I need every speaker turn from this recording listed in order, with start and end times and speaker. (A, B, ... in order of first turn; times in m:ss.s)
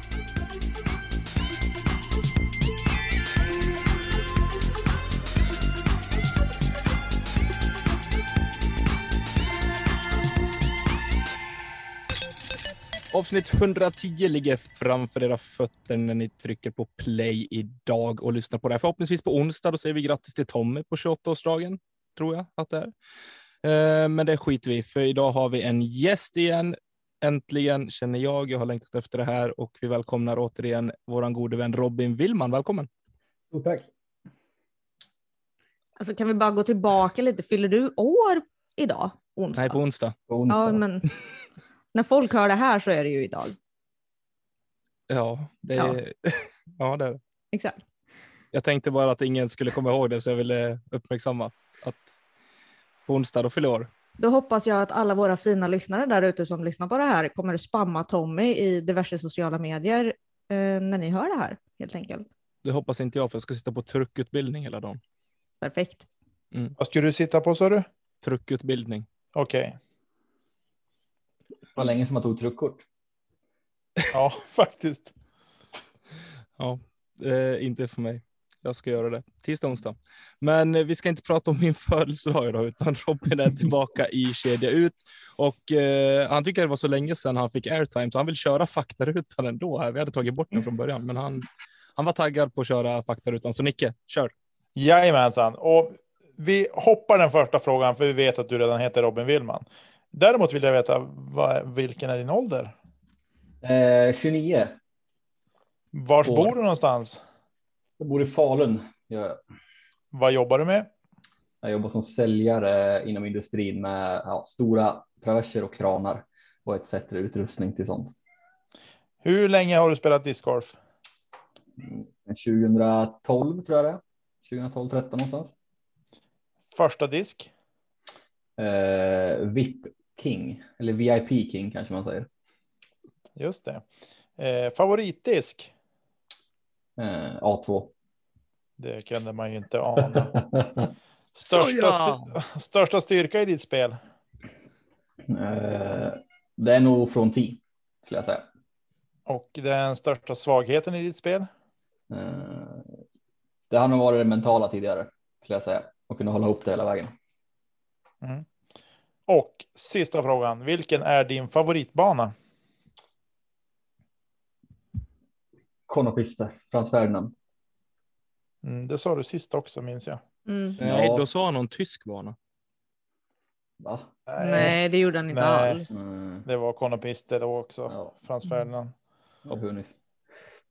0:13.1-0:22.9 A
0:23.6-0:32.9 A
0:33.5-0:33.9 B
0:36.0-0:39.8 C
0:39.5-0:40.2 A
0:40.3-0:40.8 B
0:40.5-0:41.1 C
0:41.9-0:43.6 C
0:45.1-0:47.2 A
0:47.5-0:47.8 C
0:48.5-0:52.1 A
0:53.0-0:53.9 A
0:54.2-1:02.3 C
1:02.6-1:05.0 A
1:05.6-1:06.1 C
1:06.8-1:07.8 D
1:08.2-1:09.0 A
1:09.3-1:09.8 D
1:11.8-1:12.8 B
1:14.1-1:15.1 D
1:16.6-1:34.3 A
1:34.8-1:42.7 D
1:43.6-1:44.8 B
1:45.9-1:47.2 D
1:48.0-1:49.4 B
1:50.1-1:50.9 D
1:51.6-1:58.2 B
1:59.2-2:00.8 D
2:01.8-2:05.5 B
2:06.7-2:07.5 D
2:08.6-2:12.3 B
2:13.4-2:13.8 D
2:14.4-2:15.7 D
2:17.0-2:17.9 B
2:18.8-2:20.5 D
2:21.4-2:24.0 D
2:21.5-2:22.3 A
2:25.3-2:28.4 B
2:29.3-2:31.5 D
2:32.1-2:33.0 B
2:33.7-2:37.1 B
2:39.3-2:42.3 D
2:45.9-2:47.3 B
2:48.6-2:50.2 D
2:50.5-2:50.8 C
2:50.8-2:51.2 B
2:50.8-2:52.4 A
2:53.8-2:54.1 B
2:54.3-2:54.8 D
2:54.4-2:56.0 C
2:55.3-2:55.8 D
2:55.9-2:56.4 B
2:56.4-2:58.9 D
2:59.4-3:00.0 B